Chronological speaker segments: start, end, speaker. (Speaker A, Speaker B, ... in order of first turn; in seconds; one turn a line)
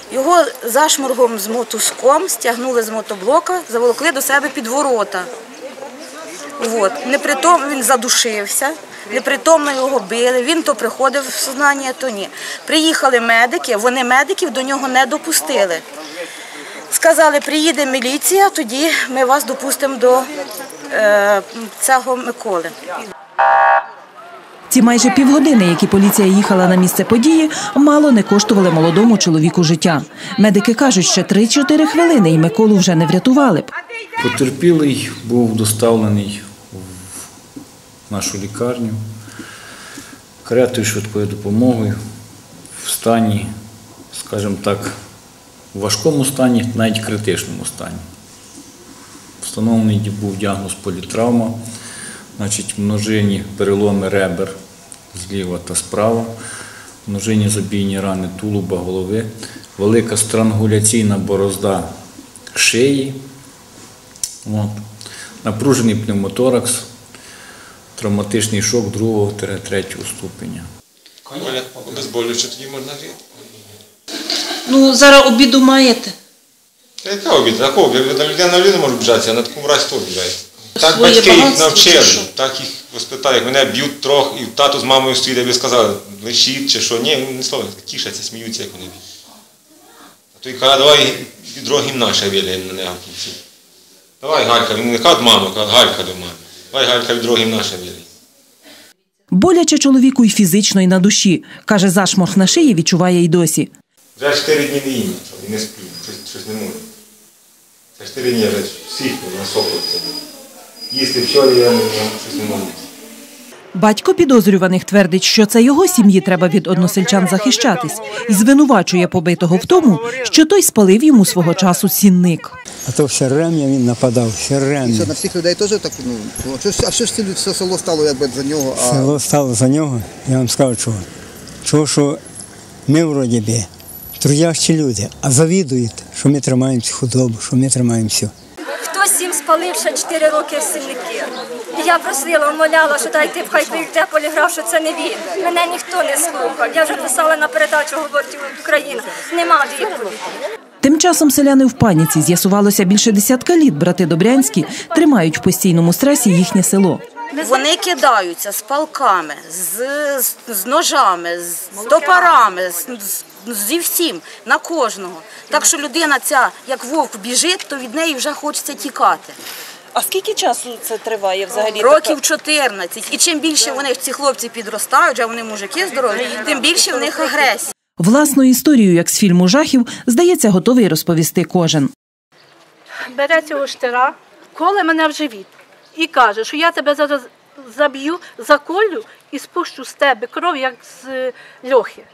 Speaker A: 0.1-5.3
Speaker A: 6.6-15.8
Speaker A: 16.9-20.3
Speaker A: 20.9-22.7
Speaker B: 24.7-33.7
Speaker C: 34.2-37.3
Speaker C: 38.1-39.0
Speaker C: 40.4-42.0
Speaker C: 42.8-43.5
Speaker C: 44.1-44.9
Speaker C: 45.7-48.0
Speaker C: 49.4-51.6
Speaker C: 52.4-54.5
Speaker C: 55.1-56.3
Speaker C: 57.1-61.9
Speaker C: 62.5-63.2
Speaker C: 64.4-64.8
Speaker C: 65.4-66.9
Speaker C: 68.0-70.7
Speaker D: 71.3-73.2
Speaker D: 77.0-89.0
Speaker D: 90.4-93.4
Speaker D: 94.2-98.1
Speaker B: 99.3-103.7
Speaker D: 104.2-106.8
Speaker D: 108.0-110.0
Speaker D: 110.9-112.8
Speaker B: 113.7-122.6
Speaker E: 122.9-125.2
Speaker F: 124.9-129.1
Speaker E: 128.8-131.1
Speaker E: 131.6-132.2
Speaker E: 132.9-133.7
Speaker E: 134.2-138.3
Speaker G: 138.8-150.2
Speaker B: 150.8-157.0
Speaker A: 157.4-169.3
Speaker H: 169.9-172.1
Speaker A: 171.7-177.7
Speaker B: 178.0-181.9
Speaker I: 183.1-192.1